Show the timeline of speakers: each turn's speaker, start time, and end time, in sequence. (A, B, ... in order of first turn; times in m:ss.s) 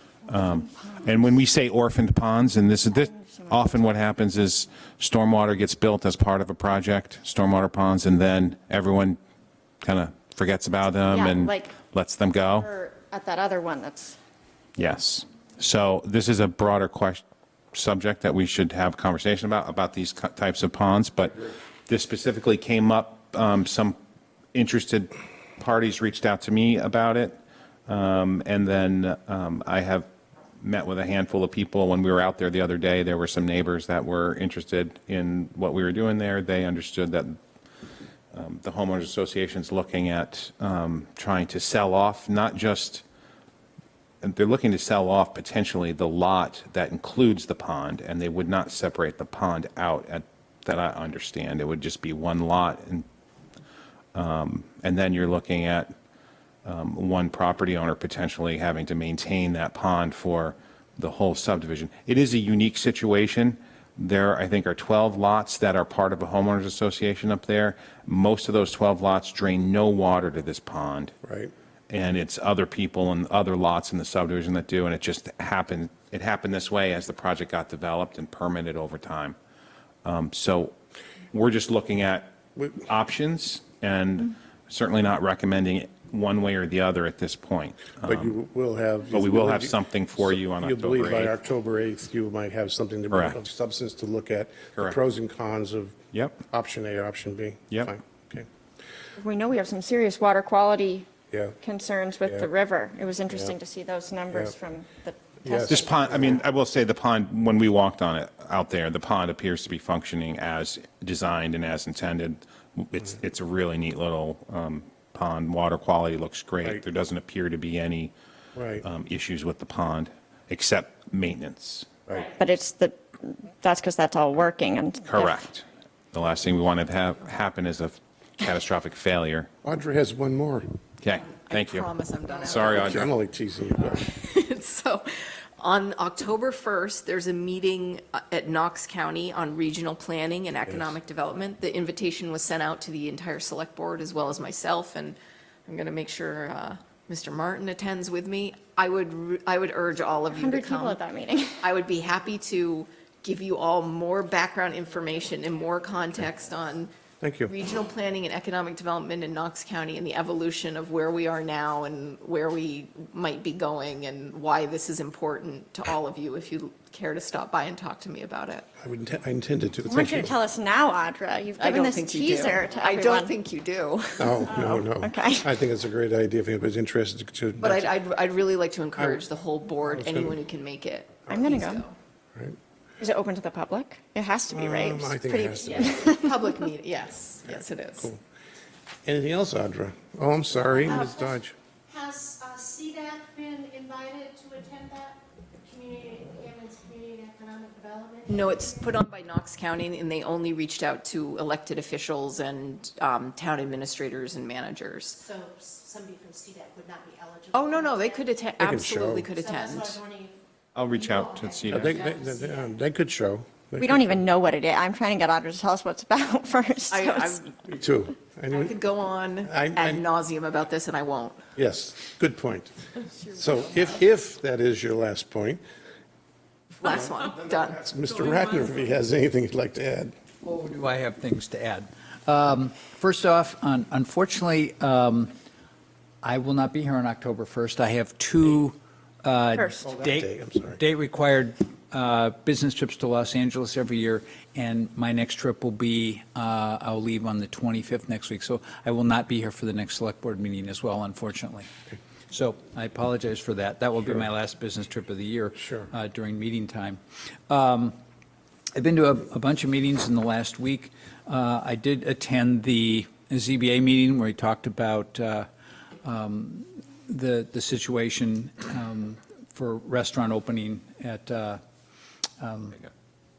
0:00.3-0:09.2 A
0:00.4-0:01.2 B
0:02.9-0:04.0 B
0:09.8-0:12.7 A
0:11.0-0:11.8 B
0:12.5-0:14.2 B
0:14.8-0:17.2 A
0:17.7-0:24.0 A
0:24.5-0:30.1 A
0:30.6-0:37.4 A
0:38.3-0:43.0 A
0:44.2-0:53.0 A
0:54.1-0:55.9 A
0:56.6-1:11.1 A
1:11.2-1:11.5 C
1:11.9-1:19.4 A
1:20.0-1:20.7 A
1:21.3-1:28.3 A
1:28.0-1:36.0 C
1:29.1-1:31.3 A
1:33.1-1:33.4 A
1:36.1-1:36.4 A
1:36.5-1:38.5 C
1:39.2-1:41.1 B
1:41.3-1:41.6 C
1:41.6-1:46.4 B
1:45.4-1:46.4 C
1:45.7-1:58.1 A
1:58.5-1:58.8 C
1:58.8-2:02.0 A
2:02.1-2:02.3 C
2:02.3-2:05.5 B
2:05.0-2:09.5 A
2:09.6-2:10.7 C
2:11.0-2:11.9 A
2:11.2-2:13.1 D
2:12.4-2:13.1 A
2:12.6-2:14.1 C
2:13.9-2:31.0 D
2:20.7-2:21.0 C
2:30.3-2:31.6 B
2:31.6-2:36.9 D
2:37.2-2:37.5 C
2:37.4-2:48.6 D
2:48.8-2:50.3 C
2:49.9-2:53.3 B
2:51.6-2:54.5 D
2:54.2-2:57.9 C
2:54.4-2:55.5 B
2:57.6-3:01.9 D
2:59.0-2:59.2 C
2:59.8-3:00.4 C
3:01.3-3:01.8 B
3:03.0-3:06.4 B
3:04.5-3:06.1 C
3:06.2-3:08.1 D
3:07.5-3:08.2 C
3:09.0-3:11.5 C
3:10.8-3:11.4 E
3:11.9-3:18.9 E
3:18.2-3:25.2 D
3:25.2-3:28.2 E
3:27.5-3:30.0 D
3:28.6-3:29.3 C
3:29.4-3:30.4 E
3:30.7-3:32.1 A
3:30.9-3:32.7 E
3:31.7-3:34.2 C
3:33.8-3:37.4 B
3:36.9-3:37.5 D
3:37.7-3:38.8 C
3:38.5-3:41.4 D
3:39.4-3:40.0 C
3:41.5-3:42.7 C
3:43.3-3:45.6 C
3:46.8-3:47.9 D
3:47.7-3:50.1 C
3:50.4-3:55.3 F
3:56.2-4:11.7 F
3:59.8-4:00.8 C
4:12.3-4:18.0 F
4:15.6-4:15.9 C
4:18.7-4:25.5 F
4:26.0-4:31.6 F
4:32.4-4:32.8 F